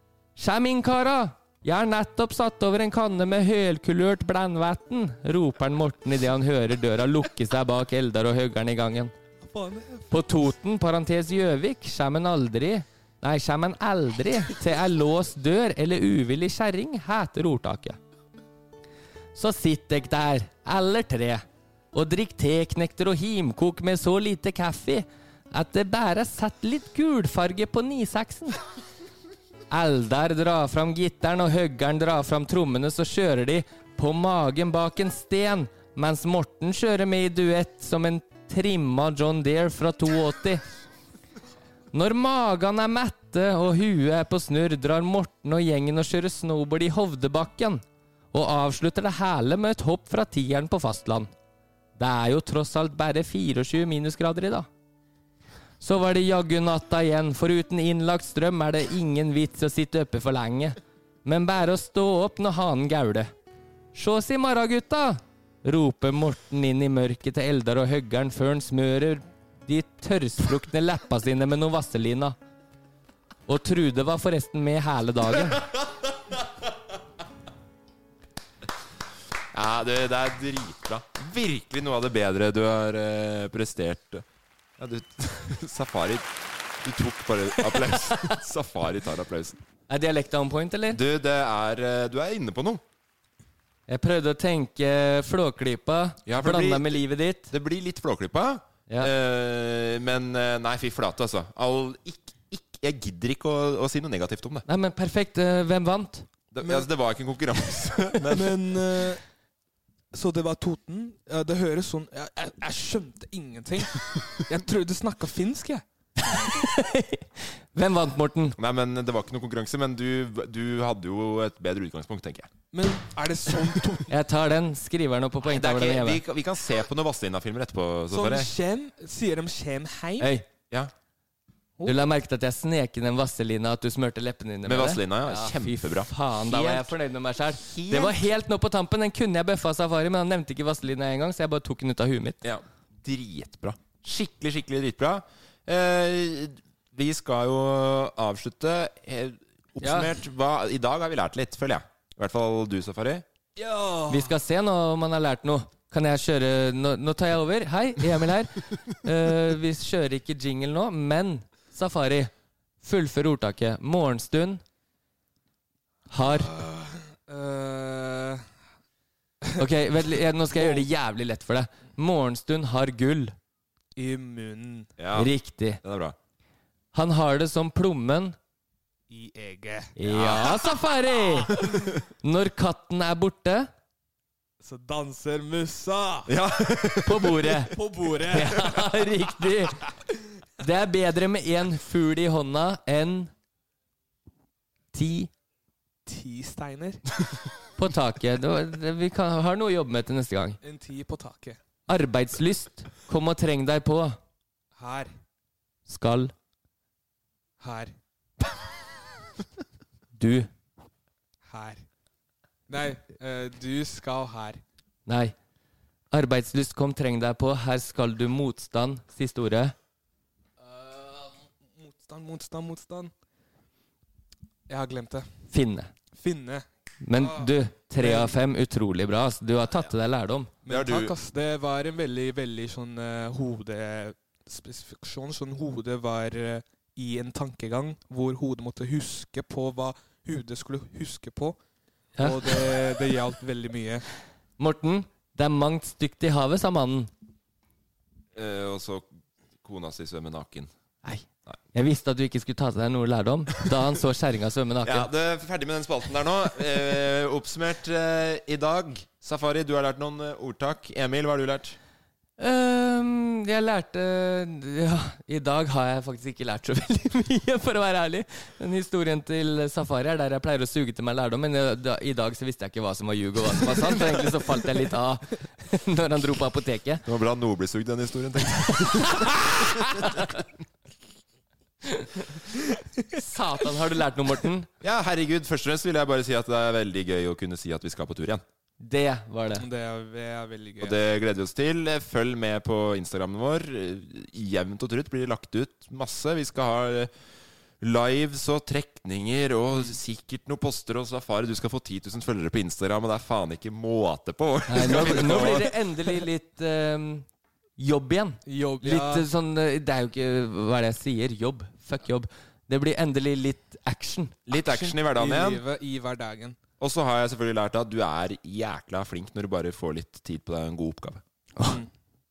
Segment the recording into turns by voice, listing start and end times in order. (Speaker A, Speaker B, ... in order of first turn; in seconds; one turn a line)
Speaker A: 0.4-9.1
Speaker B: 9.4-10.3
Speaker A: 10.1-18.0
Speaker A: 19.3-28.6
Speaker A: 29.7-40.6
Speaker A: 41.9-51.3
Speaker A: 52.0-54.7
Speaker A: 55.8-63.3
Speaker A: 63.9-72.3
Speaker A: 73.5-75.7
Speaker C: 75.5-76.4
Speaker C: 79.5-84.2
Speaker C: 84.8-86.3
Speaker C: 86.8-89.6
Speaker A: 87.9-88.3
Speaker A: 89.9-91.0
Speaker C: 90.9-92.8
Speaker A: 93.9-97.5
Speaker C: 96.2-104.7
Speaker A: 104.7-106.3
Speaker C: 106.5-108.7
Speaker B: 108.3-109.2
Speaker B: 110.1-115.8
Speaker A: 116.4-118.6
Speaker C: 118.6-122.5
Speaker B: 122.7-124.1
Speaker A: 124.1-126.2
Speaker C: 125.4-128.5
Speaker B: 128.1-130.3
Speaker A: 130.2-130.4
Speaker A: 131.8-142.4
Speaker C: 134.6-136.9
Speaker C: 137.5-138.2
Speaker C: 142.4-153.2
Speaker A: 149.8-150.1
Speaker B: 153.6-154.3
Speaker A: 154.1-162.3
Speaker A: 162.8-164.6
Speaker A: 166.1-166.5
Speaker B: 166.2-168.4
Speaker A: 169.6-173.3
Speaker B: 170.5-170.9
Speaker B: 173.9-174.9
Speaker C: 175.0-176.2
Speaker A: 175.1-175.8
Speaker A: 176.9-178.4
Speaker B: 179.1-180.8
Speaker A: 180.0-181.6
Speaker C: 180.1-180.5
Speaker B: 181.4-181.9
Speaker A: 182.2-183.7
Speaker B: 184.6-186.3
Speaker C: 186.3-187.5
Speaker A: 187.0-189.8
Speaker B: 187.7-189.0
Speaker A: 190.6-193.3
Speaker A: 194.9-195.3
Speaker B: 196.1-197.0
Speaker A: 197.8-200.6
Speaker B: 200.6-201.6
Speaker A: 201.9-204.2
Speaker B: 204.8-205.1
Speaker A: 205.9-206.3
Speaker B: 207.6-207.9
Speaker A: 210.2-210.5
Speaker B: 211.5-211.8
Speaker B: 212.7-214.6
Speaker A: 215.1-215.3
Speaker A: 216.1-219.7
Speaker B: 220.6-223.1
Speaker B: 224.7-225.3
Speaker A: 225.5-225.9
Speaker B: 226.2-228.4
Speaker A: 227.0-230.5
Speaker B: 230.6-241.6
Speaker C: 230.7-231.1
Speaker A: 242.2-242.8
Speaker B: 242.2-244.0
Speaker A: 244.6-247.1
Speaker C: 248.3-249.1
Speaker C: 249.6-250.7
Speaker A: 251.0-255.1
Speaker C: 254.8-261.8
Speaker A: 262.4-277.0
Speaker C: 277.1-280.0
Speaker A: 279.2-280.3
Speaker A: 281.8-282.2
Speaker A: 283.1-284.7
Speaker C: 284.8-288.4
Speaker A: 288.8-289.6
Speaker B: 289.6-291.0
Speaker C: 290.8-297.1
Speaker C: 297.8-305.7
Speaker A: 304.7-307.2
Speaker A: 307.8-314.3
Speaker B: 308.4-309.3
Speaker C: 314.5-315.6
Speaker B: 314.5-316.6
Speaker C: 316.8-321.2
Speaker B: 321.6-321.9